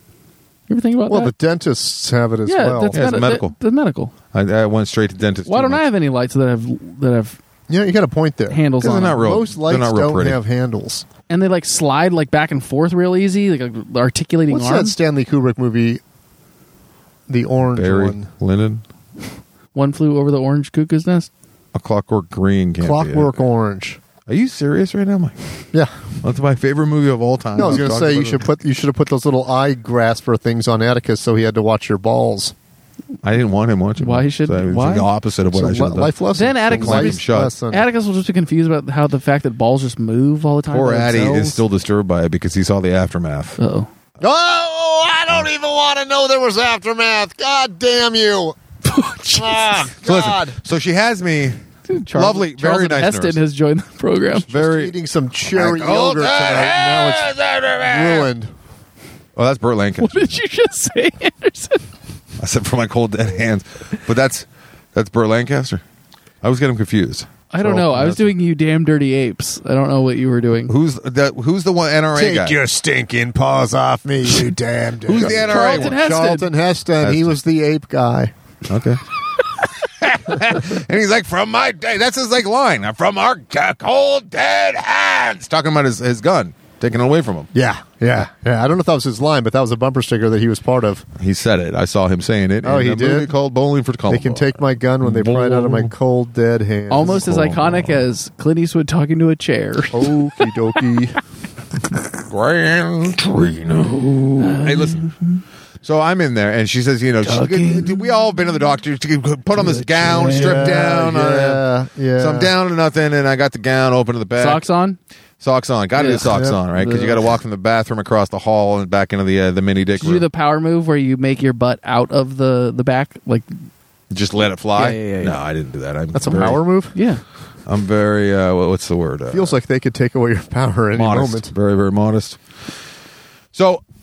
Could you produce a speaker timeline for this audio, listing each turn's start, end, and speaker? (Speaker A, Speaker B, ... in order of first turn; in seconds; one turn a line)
Speaker A: 0.7-1.3
Speaker B: 1.1-3.1
Speaker A: 2.5-4.1
Speaker C: 2.9-3.5
Speaker C: 4.3-5.8
Speaker A: 5.5-7.4
Speaker B: 7.7-11.0
Speaker A: 8.5-9.2
Speaker C: 8.8-10.4
Speaker A: 11.3-14.9
Speaker B: 14.5-16.0
Speaker B: 17.3-18.3
Speaker C: 17.7-18.8
Speaker A: 19.7-21.3
Speaker C: 21.7-23.4
Speaker B: 22.8-24.0
Speaker C: 24.3-25.4
Speaker C: 26.2-28.4
Speaker B: 27.5-32.5
Speaker C: 33.2-37.5
Speaker A: 34.0-35.1
Speaker B: 35.5-37.8
Speaker A: 36.3-41.6
Speaker C: 40.7-43.6
Speaker A: 43.6-43.9
Speaker B: 44.2-48.6
Speaker A: 48.8-49.9
Speaker B: 49.3-50.6
Speaker C: 50.0-51.6
Speaker A: 51.9-54.5
Speaker C: 52.1-53.4
Speaker B: 54.5-58.5
Speaker C: 54.5-54.9
Speaker C: 55.5-58.3
Speaker C: 59.4-60.4
Speaker A: 60.0-61.8
Speaker C: 62.4-65.8
Speaker C: 66.4-68.3
Speaker A: 67.5-70.7
Speaker C: 70.7-72.5
Speaker B: 72.1-78.3
Speaker C: 75.0-76.0
Speaker A: 75.3-76.5
Speaker C: 77.0-77.3
Speaker C: 78.7-79.0
Speaker C: 80.0-87.5
Speaker B: 87.5-91.0
Speaker C: 91.2-95.9
Speaker B: 92.6-93.3
Speaker B: 94.1-97.4
Speaker A: 96.9-100.5
Speaker C: 97.0-98.0
Speaker B: 99.9-101.2
Speaker C: 102.3-105.1
Speaker A: 104.4-105.4
Speaker C: 105.8-111.6
Speaker A: 107.2-108.0
Speaker A: 109.7-110.6
Speaker B: 110.1-112.5
Speaker C: 112.2-114.6
Speaker A: 114.3-115.0
Speaker C: 115.4-120.2
Speaker A: 115.9-117.3
Speaker B: 116.3-116.6
Speaker A: 120.0-123.5
Speaker C: 124.1-126.6
Speaker A: 124.8-125.4
Speaker B: 126.1-126.9
Speaker A: 126.3-127.2
Speaker C: 127.7-129.5
Speaker B: 129.3-131.5
Speaker C: 130.9-132.4
Speaker C: 133.5-133.8